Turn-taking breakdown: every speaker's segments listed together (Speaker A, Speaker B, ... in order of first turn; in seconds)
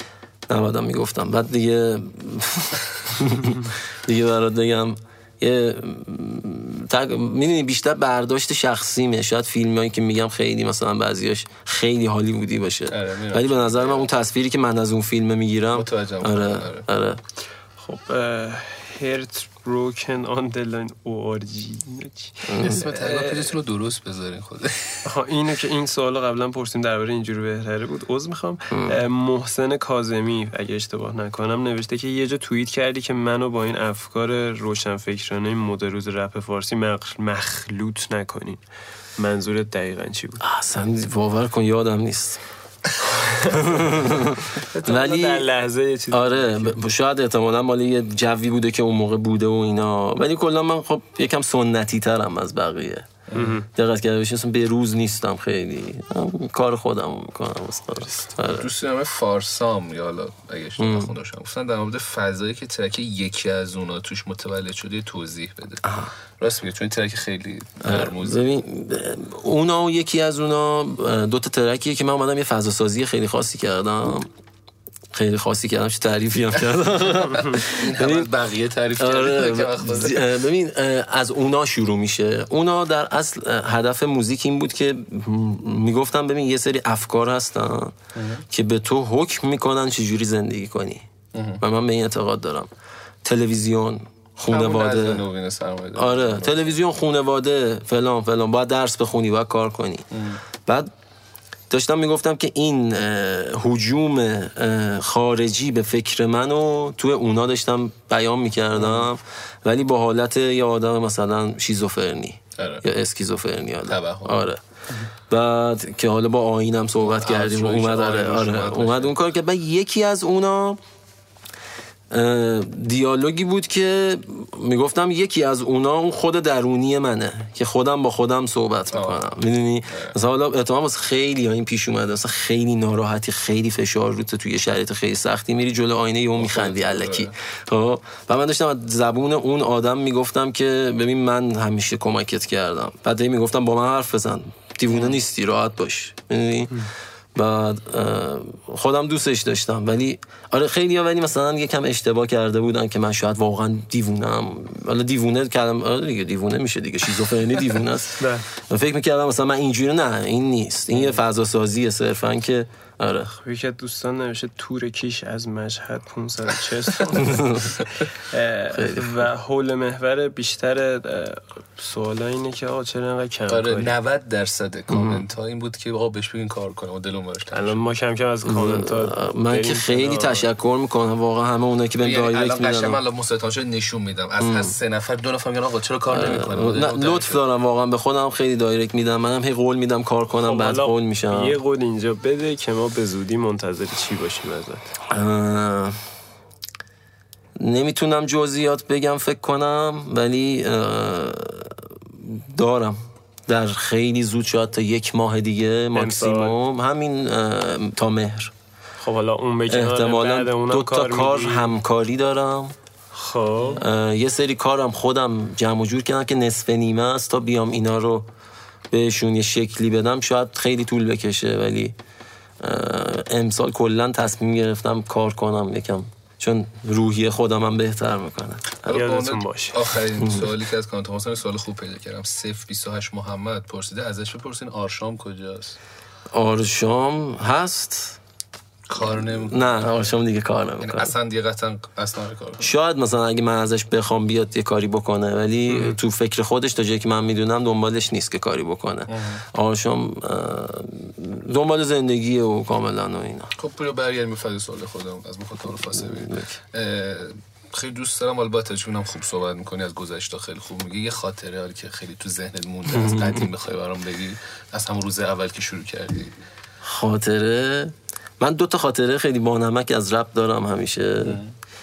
Speaker A: 0.5-17.2, 22.5-22.9, 28.7-29.0, 40.4-42.4, 43.4-45.5, 46.1-53.1, 53.7-58.7, 60.8-61.1, 65.8-66.1, 67.8-74.3, 75.1-78.3, 79.0-88.0, 88.5-91.1, 91.6-92.7, 93.2-95.2, 96.0-100.1, 101.7-114.6, 115.3-120.8, 122.1-163.3, 167.1-167.8, 168.7-169.2, 174.9-175.3, 178.4-183.0, 184.4-184.7, 186.1-191.6, 195.1-196.0, 197.6-208.5, 209.7-212.8, 213.8-218.3, 218.9-221.9, 222.6-228.8, 230.2-230.5, 236.3-238.2, 238.9-241.1, 242.6-253.5, 256.0-256.5, 262.9-263.5, 266.8-271.4
Speaker B: 12.9-14.1, 15.7-16.9, 22.6-25.0, 53.3-53.6, 58.5-65.8, 66.4-68.4, 77.7-80.3, 88.2-88.4, 91.3-91.6, 94.5-96.7, 100.1-100.4, 108.8-109.1, 112.6-112.8, 113.9-114.5, 117.0-119.1, 128.9-129.2, 129.9-130.2, 136.4-137.3, 144.9-145.2, 173.5-177.9, 182.0-187.4, 228.8-235.8, 238.9-240.0, 240.8-242.7, 249.1-249.4, 253.6-266.4, 271.2-271.5
Speaker C: 17.8-23.5, 25.1-38.6, 39.2-40.4, 43.0-46.8, 53.3-53.7, 158.2-158.5, 163.4-173.9, 177.5-180.4, 190.4-194.9, 205.9-206.6, 209.0-211.7, 213.1-213.8, 228.9-229.9, 245.7-246.0